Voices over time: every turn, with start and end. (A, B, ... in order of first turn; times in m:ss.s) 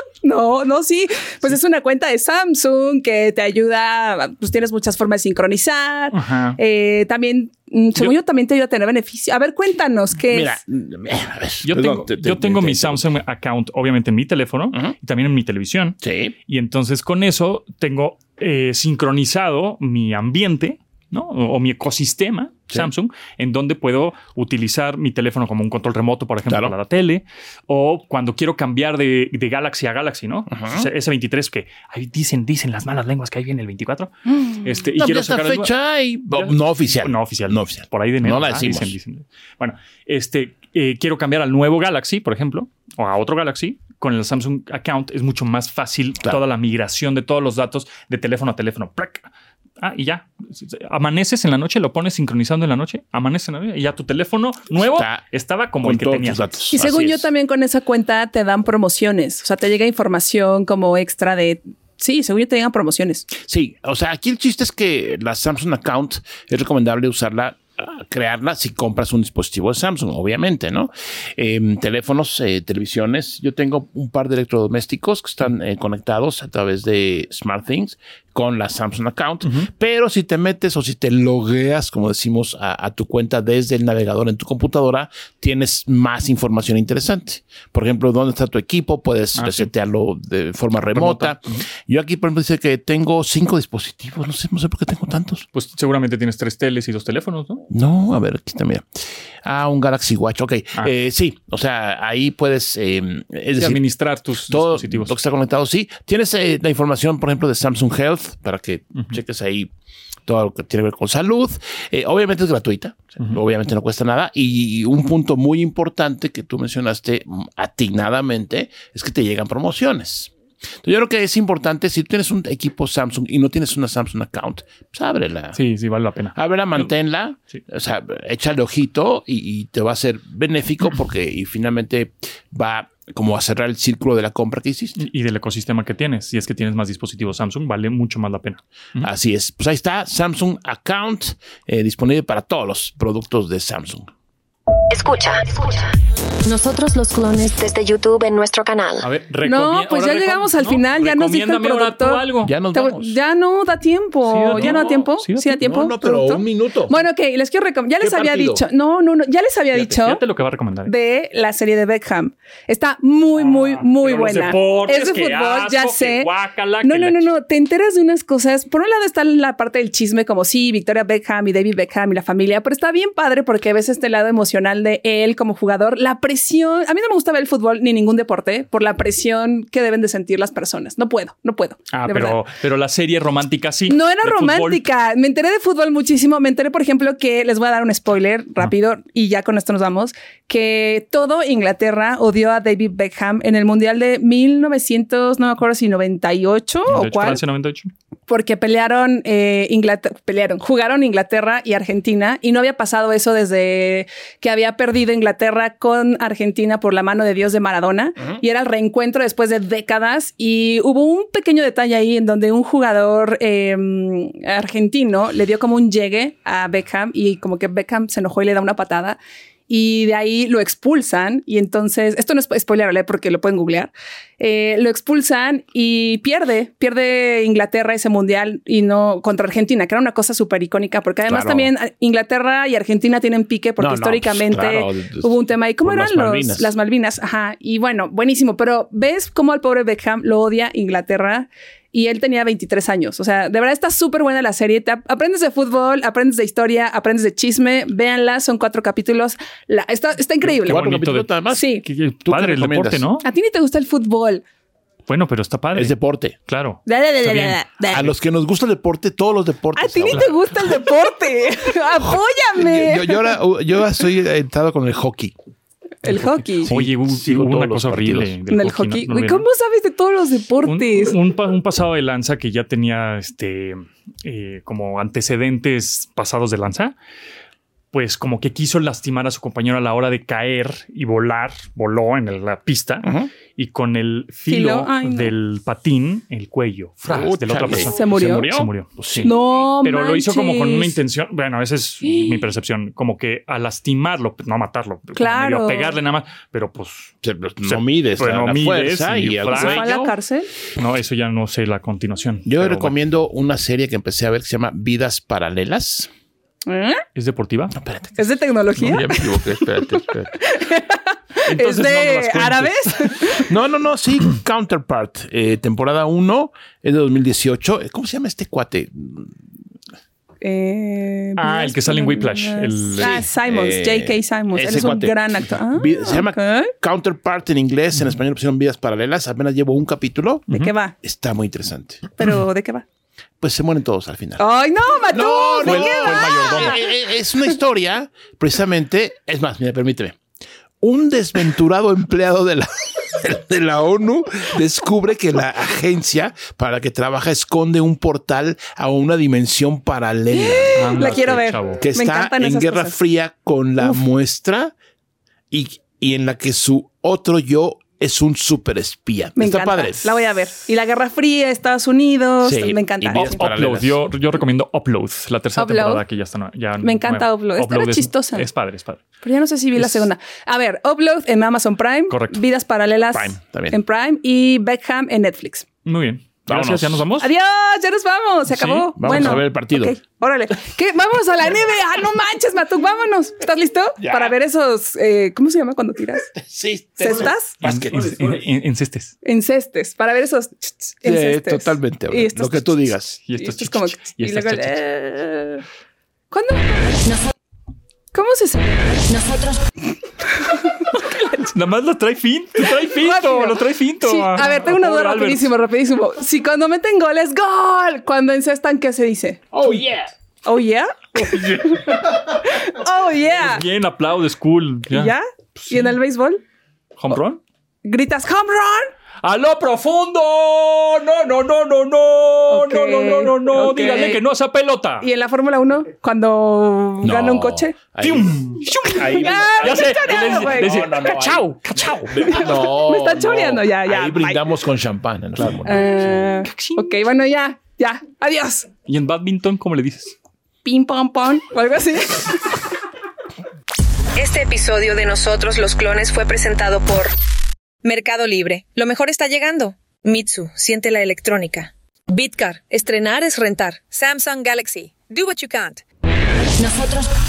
0:00.2-0:10.6 A
0:06.1-0:06.6 B
0:10.2-0:13.0 C
0:11.6-0:35.7 B
0:16.0-0:16.3 C
0:26.4-0:26.7 C
0:30.5-0:30.9 C
0:34.9-0:39.0 C
0:36.3-0:49.3 B
0:49.8-0:56.5 B
0:54.9-0:55.2 C
0:55.8-0:57.3 C
0:56.7-1:03.3 A
1:03.3-1:35.4 C
1:29.3-1:29.7 B
1:30.9-1:31.6 B
1:35.5-1:37.6 B
1:37.7-1:43.8 C
1:43.6-1:45.1 B
1:44.5-1:49.7 C
1:50.3-2:00.3 C
2:00.8-2:05.6 C
2:05.5-2:06.9 B
2:06.3-2:15.0 C
2:15.0-2:19.1 B
2:19.0-2:24.1 C
2:24.9-2:25.9 D
2:26.4-2:29.1 D
2:29.0-2:32.5 B
2:29.4-2:40.2 A
2:32.4-2:33.2 C
2:34.2-2:35.6 B
2:34.5-2:37.0 C
2:38.0-2:38.6 C
2:39.7-2:40.9 B
2:40.8-2:46.3 A
2:43.4-2:47.3 B
2:46.8-3:02.4 A
3:01.9-3:04.8 B
3:03.9-3:17.4 A
3:16.9-3:17.9 B
3:18.3-3:39.2 A
3:39.7-4:10.8 A
3:51.3-3:51.7 C
3:53.8-3:56.7 C
4:10.4-4:13.3 B
4:10.6-4:13.1 C
4:11.5-4:11.8 A
4:13.2-4:14.4 A
4:15.1-4:17.6 B
4:15.7-4:16.4 C
4:16.9-4:18.1 A
4:17.9-4:20.4 C
4:19.7-4:23.4 A
4:20.1-4:20.4 B
4:22.0-4:25.4 C
4:26.0-4:26.7 A
4:26.1-4:28.4 C
4:26.2-4:29.4 B
4:28.5-4:31.1 A
4:30.6-4:36.9 B
4:37.9-5:00.0 B
4:43.0-4:43.3 C
4:44.5-4:45.3 A
4:47.0-4:49.3 C
4:47.7-4:48.5 A
4:49.2-4:51.0 A
4:52.0-4:52.3 A
4:55.2-4:56.0 A
4:57.2-5:00.1 C
4:59.5-5:00.5 A
5:00.8-5:02.9 B
5:02.4-5:06.1 C
5:06.6-5:07.0 A
5:07.1-5:07.8 B
5:07.8-5:08.2 C
5:08.2-5:13.4 A
5:08.8-5:10.3 C
5:11.4-5:13.3 B
5:13.4-5:19.3 C
5:20.4-5:26.7 A
5:21.4-5:23.3 B
5:23.0-5:25.2 C
5:25.7-5:30.5 C
5:30.5-5:30.9 A
5:31.0-5:32.0 C
5:32.2-5:32.8 A
5:33.4-5:34.4 C
5:34.4-5:36.8 A
5:35.1-5:40.2 C
5:35.6-5:36.8 B
5:40.8-5:51.2 C
5:50.4-5:52.9 A
5:50.8-5:51.8 B
5:51.8-5:54.7 C
5:55.5-6:00.2 C
5:59.4-6:03.4 A
6:02.4-6:04.0 C
6:03.1-6:09.0 B
6:05.6-6:06.0 A
6:06.8-6:08.4 A
6:09.2-6:15.6 A
6:09.8-6:10.1 B
6:12.1-6:12.4 B
6:13.1-6:13.8 C
6:15.8-6:17.3 B
6:16.5-6:17.0 C
6:17.2-6:26.3 A
6:18.5-6:19.4 B
6:19.0-6:20.0 C
6:24.0-6:24.3 C
6:26.3-6:28.4 C
6:27.0-6:27.6 A
6:27.6-6:29.1 B
6:29.2-6:32.8 A
6:31.0-6:33.2 C
6:33.3-6:34.8 B
6:33.4-6:35.6 A
6:36.3-6:37.0 A
6:37.0-6:37.3 D
6:38.1-6:38.8 A
6:39.0-6:39.6 D
6:40.5-6:41.5 A
6:41.5-6:45.5 B
6:42.9-6:49.5 A
6:49.5-6:50.1 C
6:50.4-6:53.6 A
6:51.3-6:51.6 B
6:51.3-6:51.7 C
6:53.4-6:56.0 B
6:54.9-6:56.4 A
6:57.0-6:57.4 B
6:57.8-6:58.9 A
6:59.2-7:05.1 B
7:02.5-7:04.2 A
7:05.0-7:07.7 A
7:07.0-7:15.8 C
7:08.0-7:12.5 B
7:08.8-7:10.9 A
7:12.2-7:14.4 A
7:15.4-7:16.9 B
7:15.6-7:18.7 A
7:18.8-7:20.1 B
7:20.6-7:22.5 A
7:24.2-7:27.1 E
7:27.8-7:35.8 E
7:36.6-7:37.1 D